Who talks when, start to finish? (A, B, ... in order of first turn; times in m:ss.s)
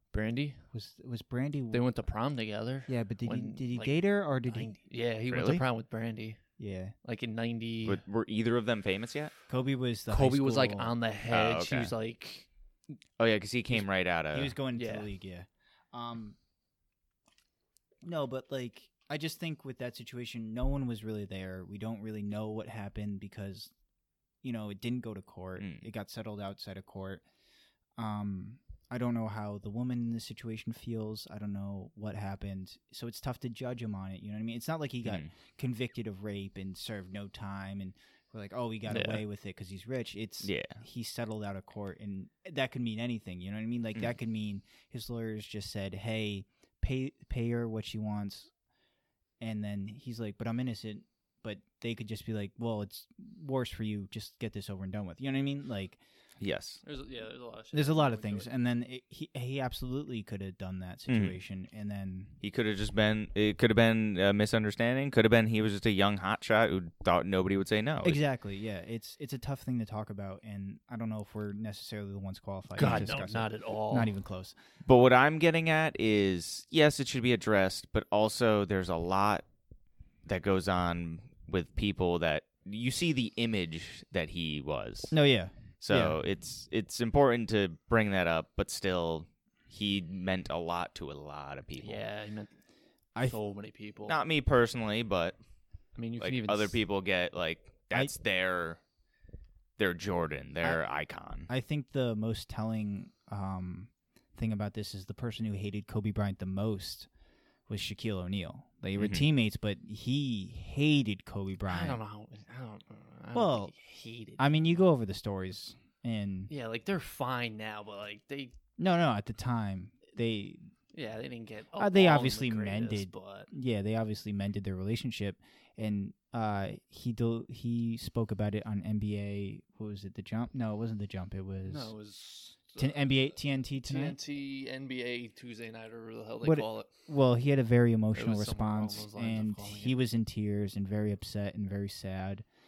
0:00.1-0:00.6 A
0:00.7-0:01.8 B
0:01.7-0:06.4 A
0:02.9-0:04.7 B
0:05.3-0:05.6 C
0:06.6-0:06.9 B
0:07.0-0:08.0 A
0:07.8-0:09.3 C
0:09.5-0:10.9 B
0:10.1-0:12.5 A
0:11.3-0:11.9 C
0:13.2-0:14.5 C
0:14.3-0:16.4 B
0:14.7-0:15.1 A
0:18.0-0:23.7 B
0:24.4-0:27.2 B
0:25.6-0:25.8 C
0:28.0-0:48.5 B
0:38.9-0:39.2 A
0:40.4-0:40.8 C
0:49.4-0:56.0 B
0:56.4-0:56.8 C
0:56.8-0:58.5 A
0:57.7-1:02.4 B
1:01.1-1:01.4 C
1:02.4-1:08.2 C
1:08.0-1:14.5 B
1:12.8-1:14.1 A
1:14.8-1:19.4 C
1:20.2-1:25.1 C
1:25.1-1:26.2 B
1:25.8-1:32.0 C
1:31.8-1:32.5 A
1:33.2-1:34.2 A
1:34.1-1:35.4 C
1:35.9-1:36.8 A
1:36.2-1:38.8 C
1:39.8-1:41.5 C
1:41.5-1:47.1 B
1:47.7-1:52.0 B
1:49.0-1:49.3 C
1:51.7-1:54.8 A
1:53.3-1:53.7 B
1:54.4-1:56.5 B
1:56.5-1:58.5 A
1:58.8-2:00.7 B
2:00.9-2:03.5 A
2:01.8-2:11.9 B
2:11.6-2:13.1 A
2:12.8-2:14.2 B
2:13.8-2:16.9 A
2:16.4-2:22.4 B
2:18.2-2:20.0 A